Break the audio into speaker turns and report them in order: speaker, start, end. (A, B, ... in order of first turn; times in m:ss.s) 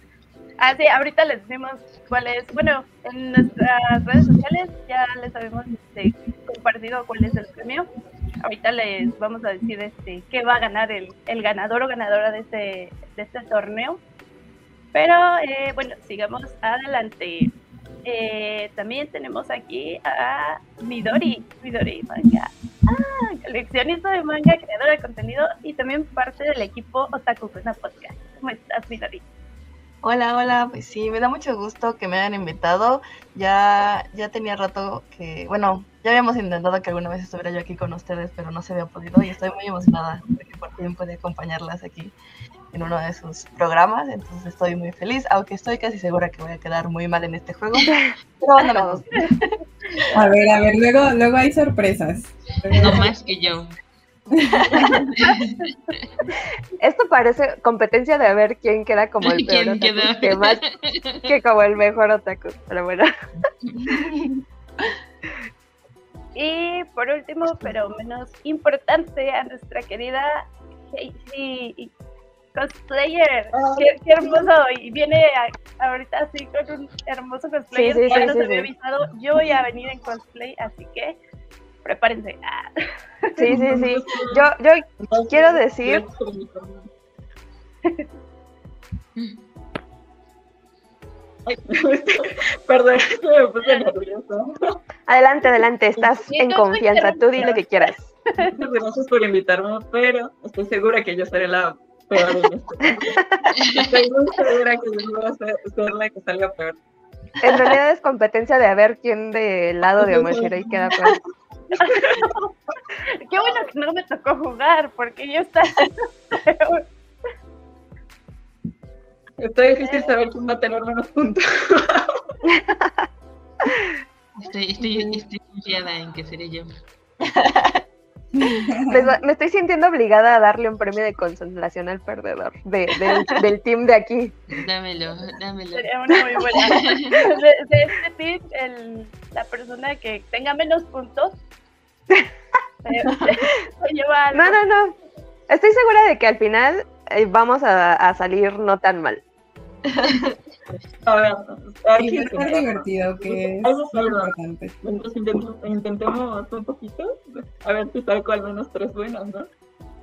0:00.6-0:07.9 A
0:08.4-0:14.0 A
0:14.9-0:17.5 A
0:18.0-0:29.2 A
0:30.0-0:42.2 B
0:42.7-0:49.2 B
0:48.8-0:49.0 C
0:49.1-0:50.1 A
0:50.1-0:53.1 D
0:52.8-0:53.8 E
0:54.5-0:55.1 D
0:54.5-0:55.0 B
0:55.2-0:55.6 E
0:56.8-1:00.6 C
0:59.2-1:01.3 E
1:01.2-1:03.1 C
1:03.8-1:04.3 B
1:06.4-1:11.9 A
1:12.5-1:21.2 A
1:13.5-1:14.5 F
1:17.7-1:18.7 C
1:21.8-1:23.6 A
1:23.4-1:26.0 C
1:23.4-1:24.5 F
1:25.0-1:26.9 F
1:31.4-1:34.7 F
1:35.1-1:38.1 C
1:36.2-1:38.5 A
1:38.4-1:46.8 F
1:47.4-1:51.2 C
1:50.0-1:50.7 F
1:51.7-1:52.5 A
1:51.9-1:52.2 F
1:53.1-1:56.9 A
1:59.4-2:02.2 F
1:59.8-2:00.1 A
2:02.5-2:03.0 C
2:04.4-2:06.7 E
2:04.8-2:05.2 D
2:07.2-2:07.8 B
2:08.4-2:09.1 D
2:08.9-2:14.4 C
2:14.5-2:17.3 E
2:15.8-2:21.4 A
2:22.8-2:24.6 A
2:24.3-2:25.0 C
2:25.5-2:29.2 C
2:29.9-2:30.4 B
2:31.0-2:39.5 F
2:32.0-2:34.7 D